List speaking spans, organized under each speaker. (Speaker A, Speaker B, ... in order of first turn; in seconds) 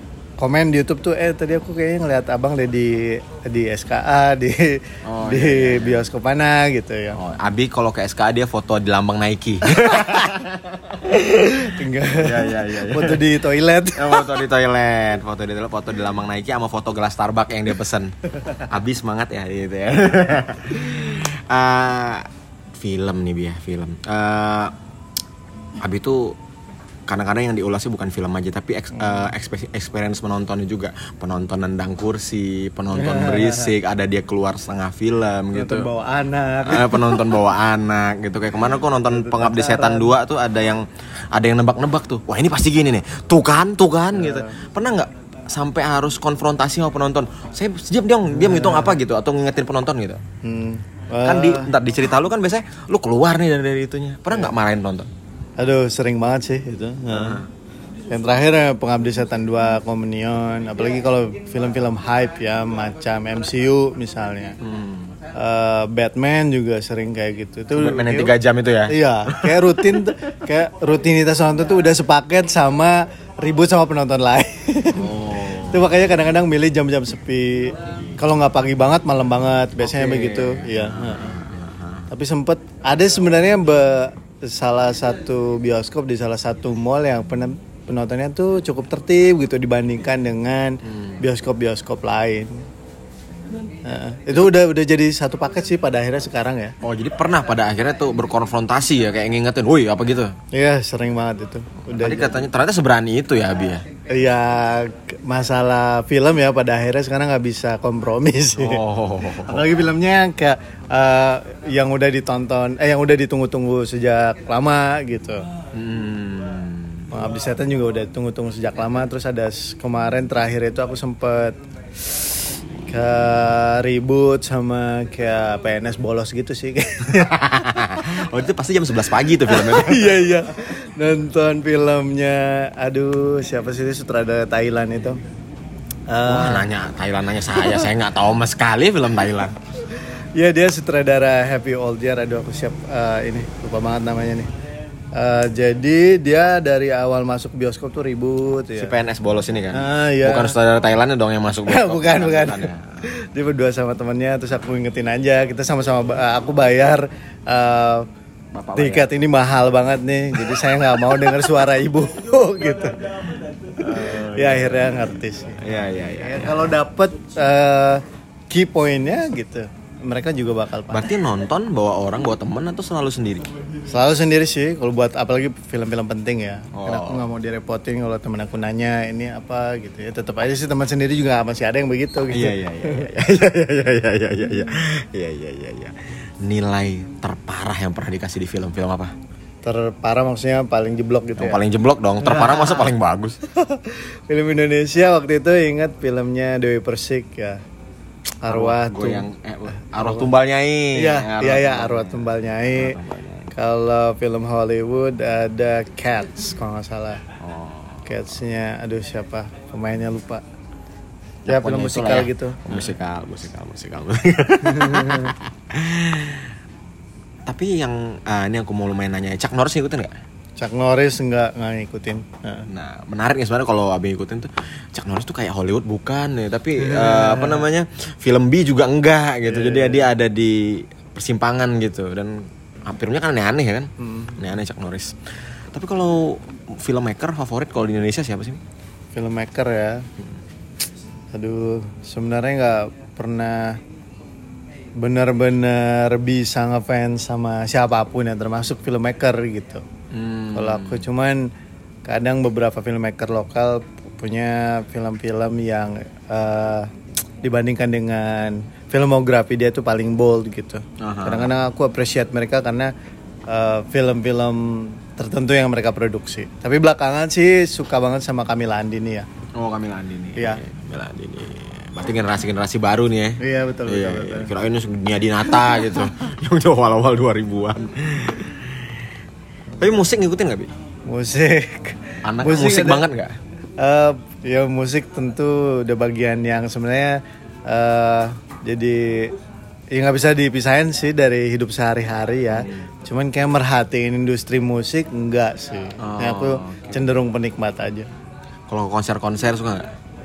Speaker A: 0.4-7.2, 9.7-10.3, 11.0-14.4, 29.0-29.3, 32.9-33.7, 35.5-37.4, 39.0-40.2, 44.1-44.5, 48.3-49.0, 50.4-51.7, 55.6-57.4, 58.1-64.6, 65.3-68.4, 68.9-81.4, 82.1-92.6, 93.8-96.8, 100.5-102.4, 104.1-115.4, 117.1-127.4, 129.5-135.2, 136.1-136.7, 137.6-137.9, 139.9-144.5, 145.1-148.9, 149.7-150.6, 151.6-158.1, 158.8-171.1, 173.9-183.2, 189.6-191.6, 192.2-192.9, 193.4-197.6, 198.4-199.3, 199.9-200.3, 200.9-203.0, 203.5-207.2, 208.1-210.4, 211.5-212.9, 214.6-215.3, 220.6-222.7, 226.8-227.7, 229.5-230.1, 234.0-234.4, 239.1-240.1, 241.3-243.8, 245.0-249.8, 250.5-251.5, 252.1-256.9, 257.4-262.9, 263.5-269.3, 270.4-270.6, 273.4-274.5, 275.6-276.1, 281.1-283.1, 283.8-289.3, 289.9-298.1
Speaker B: 5.0-6.1, 7.1-11.1, 12.1-13.3, 13.9-22.3, 22.8-24.7, 25.8-26.4, 27.1-35.9, 36.6-50.2, 51.2-55.1, 57.1-57.5, 64.6-65.2, 67.7-70.1, 75.0-75.9, 79.8-82.1, 90.9-91.2, 96.8-100.4, 101.9-103.8, 108.6-109.8, 115.7-117.1, 127.1-130.2, 136.2-139.6, 148.8-153.0, 158.5-159.1, 163.8-166.7, 170.9-173.5, 176.7-177.3, 182.3-189.1, 191.4-193.4, 198.5-203.5, 207.4-208.1, 211.5-216.5, 217.5-220.2, 222.7-238.6, 250.1-251.1, 261.0-261.5, 269.6-278.9, 279.8-280.7, 282.2-283.4, 292.5-292.9, 296.0-297.2, 298.7-299.9